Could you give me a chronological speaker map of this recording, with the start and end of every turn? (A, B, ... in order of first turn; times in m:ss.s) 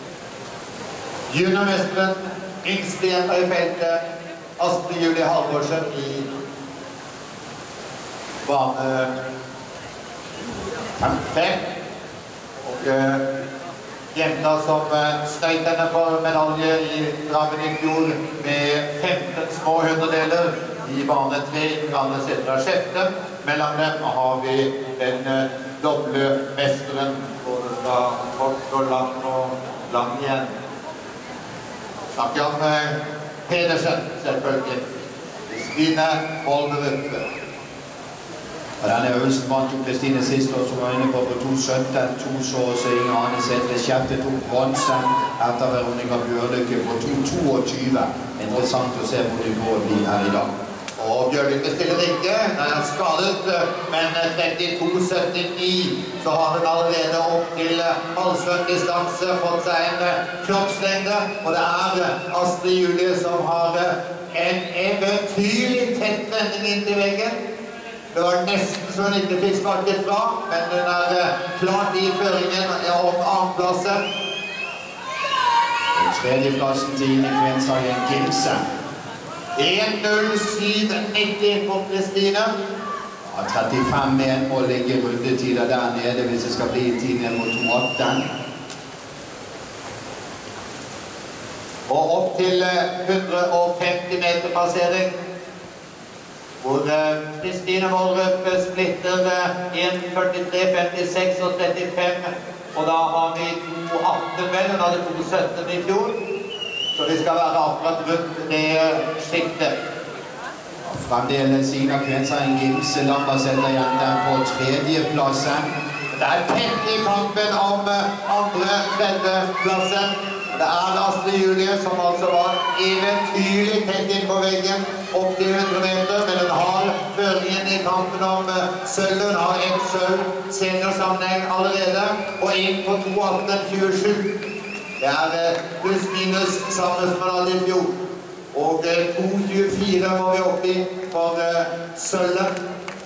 0:01.3-0:04.0 A
0:04.6-0:06.3 A
0:08.4-0:09.1 A
0:11.0-0:11.6 A
0:12.6-0:13.2 A
0:14.1-0:30.5 A
0:32.2-0:32.9 A
0:33.5-0:34.8 A
0:35.5-0:37.2 A
0:38.8-0:50.5 B
0:51.0-1:07.4 A
1:08.1-1:14.0 A
1:16.0-1:18.6 B
1:19.6-1:22.5 A
1:23.3-1:28.2 B
1:31.9-1:35.1 A
1:36.6-1:46.2 A
1:46.9-1:49.8 A
1:50.9-1:55.7 B
1:56.1-2:14.3 A
2:15.0-2:17.9 A
2:18.5-2:22.5 A